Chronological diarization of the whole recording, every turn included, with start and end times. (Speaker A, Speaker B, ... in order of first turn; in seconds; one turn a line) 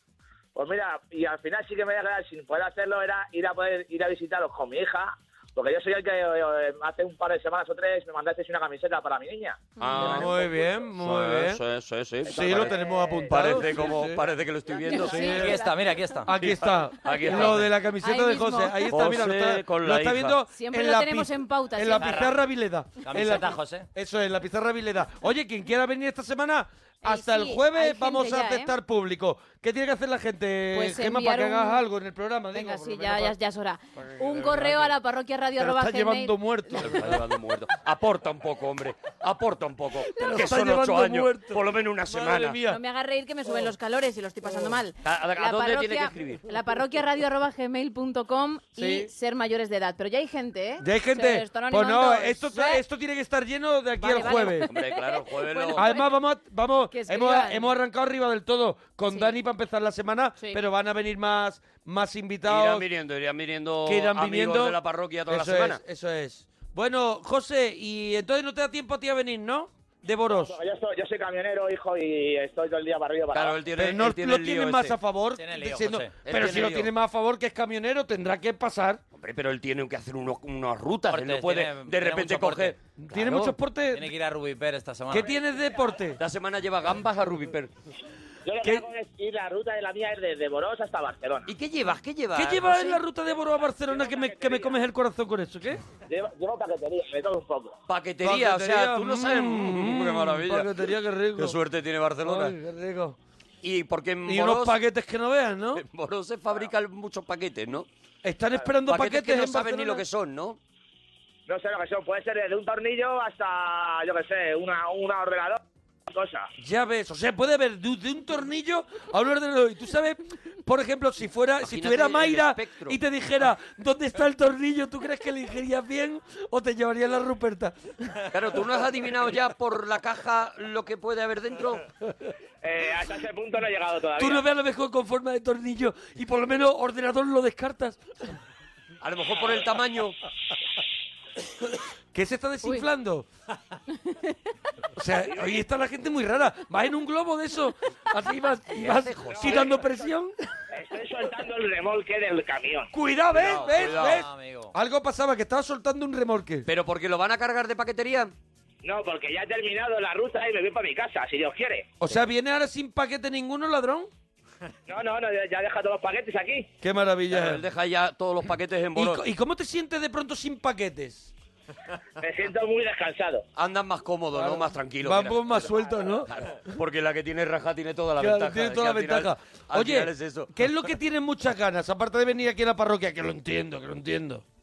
Speaker A: 0.6-9.7
Speaker B: 9.8-15.6
Speaker C: 9.8-10.3
Speaker D: 9.9-11.6
Speaker D: 12.3-14.2
Speaker C: 14.9-16.2
Speaker D: 15.1-15.6
Speaker E: 15.2-16.3
Speaker D: 16.3-33.3
Speaker B: 16.4-17.7
Speaker C: 17.1-19.0
Speaker B: 18.9-20.4
Speaker C: 20.5-22.3
Speaker E: 22.0-22.4
Speaker E: 23.0-23.9
Speaker C: 27.0-28.7
Speaker C: 30.7-31.8
Speaker C: 32.5-36.8
Speaker D: 34.2-34.9
Speaker D: 35.6-37.2
Speaker B: 36.8-42.6
Speaker D: 40.1-42.8
Speaker C: 42.6-52.8
Speaker B: 45.0-46.4
Speaker D: 48.8-49.1
Speaker D: 50.8-54.7
Speaker C: 54.0-56.2
Speaker B: 54.6-55.9
Speaker D: 55.7-62.9
Speaker C: 56.9-57.7
Speaker C: 59.1-59.4
Speaker B: 62.5-65.8
Speaker D: 63.9-70.6
Speaker A: 70.4-73.6
Speaker B: 73.3-75.0
Speaker D: 73.7-79.0
Speaker E: 75.3-76.2
Speaker B: 76.2-76.9
Speaker B: 79.1-83.5
Speaker E: 81.1-82.8
Speaker D: 83.0-84.1
Speaker E: 83.9-85.3
Speaker D: 85.1-86.2
Speaker B: 86.2-87.7
Speaker A: 88.5-91.5
Speaker B: 91.5-93.0
Speaker D: 92.3-95.8
Speaker A: 93.9-94.7
Speaker A: 96.1-97.8
Speaker B: 97.9-100.8
Speaker D: 98.2-101.6
Speaker B: 101.4-102.6
Speaker D: 102.2-103.2
Speaker B: 103.6-104.8
Speaker D: 104.3-105.8
Speaker B: 105.7-107.9
Speaker D: 108.2-110.0
Speaker B: 108.7-110.6
Speaker A: 111.5-116.5
Speaker D: 116.6-128.2
Speaker B: 121.6-123.0
Speaker B: 128.3-131.8
Speaker A: 132.6-134.4
Speaker D: 134.2-138.0
Speaker B: 139.0-140.2
Speaker D: 142.1-143.3
Speaker C: 144.0-144.4
Speaker D: 145.0-150.3
Speaker B: 148.7-149.8
Speaker A: 149.4-149.7
Speaker A: 150.7-152.9
Speaker D: 152.9-156.7
Speaker B: 153.3-154.3
Speaker E: 153.7-154.7
Speaker B: 156.7-158.3
Speaker A: 158.8-161.9
Speaker D: 162.0-164.1
Speaker A: 164.9-166.7
Speaker D: 166.8-167.6
Speaker B: 167.3-169.3
Speaker D: 168.9-171.3
Speaker A: 172.2-173.4
Speaker B: 173.6-180.9
Speaker D: 174.3-176.3
Speaker D: 178.2-184.4